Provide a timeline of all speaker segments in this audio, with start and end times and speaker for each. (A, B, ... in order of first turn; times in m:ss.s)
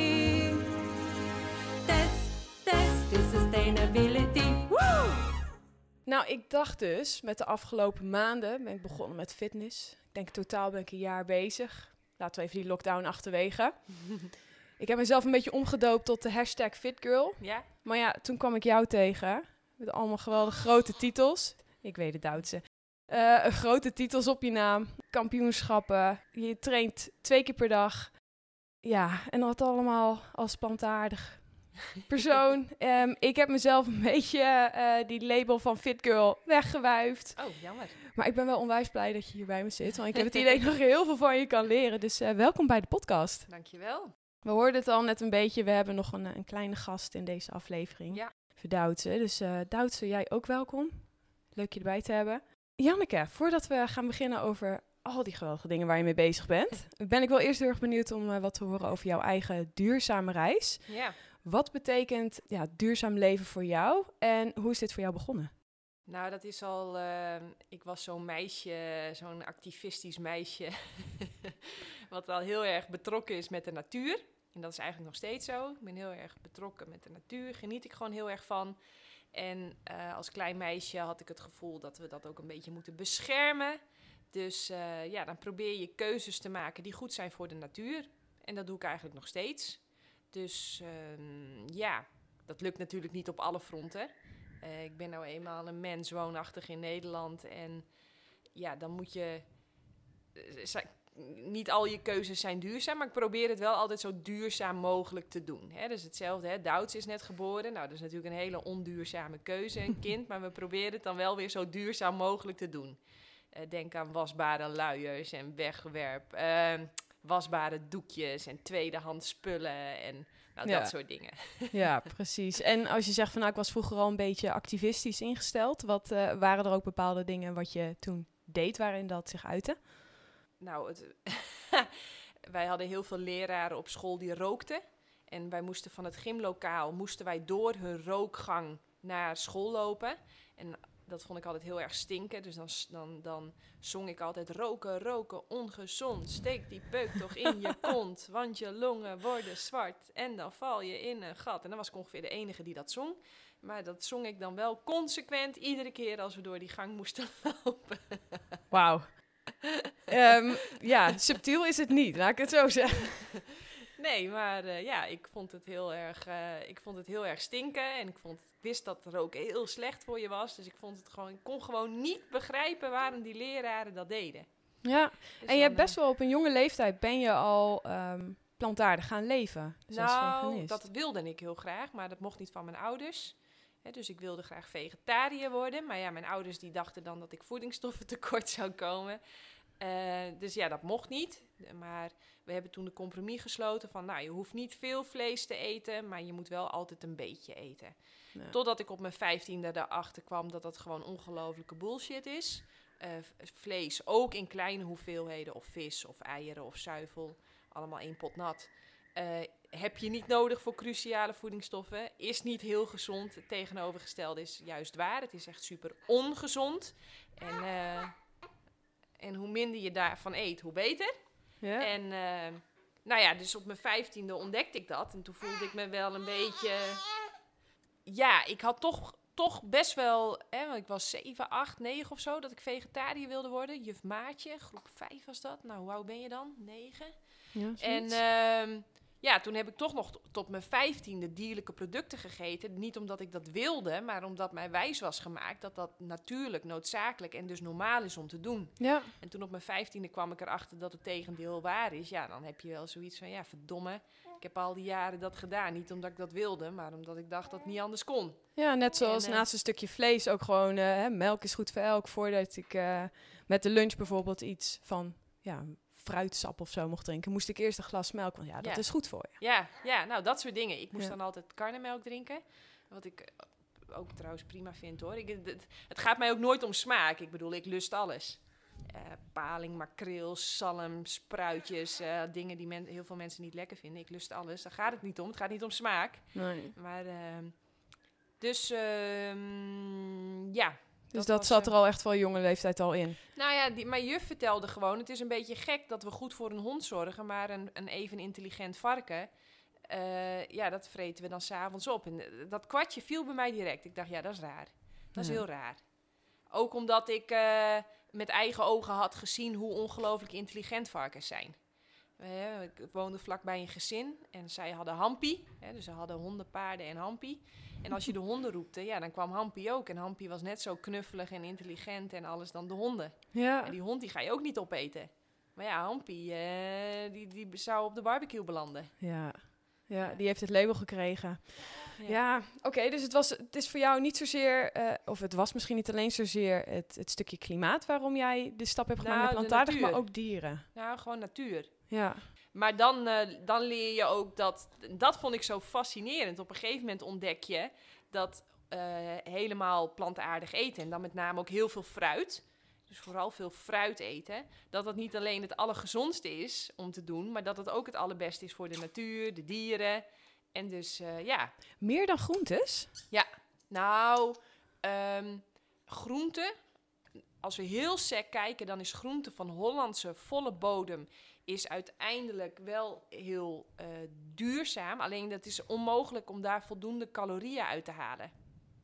0:01.8-0:05.3 A
0:06.0-0:28.2 B
0:17.4-0:17.6 C
0:28.8-0:37.5 B
0:37.4-0:38.0 C
0:38.1-0:43.5 B
0:43.5-0:44.1 C
0:44.4-1:05.5 B
1:00.9-1:01.2 C
1:06.0-1:18.8 C
1:19.3-1:23.8 C
1:24.3-1:37.9 C
1:38.5-1:39.5 C
1:40.3-1:53.0 C
1:53.5-2:01.9 C
2:00.6-2:00.9 B
2:01.4-2:10.1 B
2:10.6-2:11.9 C
2:12.5-2:38.6 C
2:38.7-2:39.5 B
2:40.1-2:43.4 B
2:44.0-2:54.8 C
2:54.8-3:00.8 B
2:55.4-2:56.0 C
2:59.9-3:09.2 C
3:09.8-3:17.9 C
3:18.5-3:38.1 C
3:39.2-3:41.1 C
3:41.6-3:41.9 B
3:41.8-3:47.0 C
3:48.0-4:19.5 C
3:57.5-3:58.2 B
4:08.8-4:09.1 B
4:18.5-4:29.4 B
4:28.6-4:47.6 C
4:46.3-4:46.7 B
4:48.4-4:51.7 C
4:51.1-4:53.2 B
4:53.3-4:59.3 C
4:59.8-5:05.8 C
5:05.2-5:05.4 B
5:06.5-5:11.6 C
5:12.2-5:29.0 C
5:23.3-5:23.7 B
5:29.0-5:40.7 B
5:39.0-5:41.9 C
5:41.9-5:42.2 B
5:42.5-6:01.5 C
6:01.8-6:02.9 B
6:03.1-6:06.5 C
6:07.4-6:18.3 C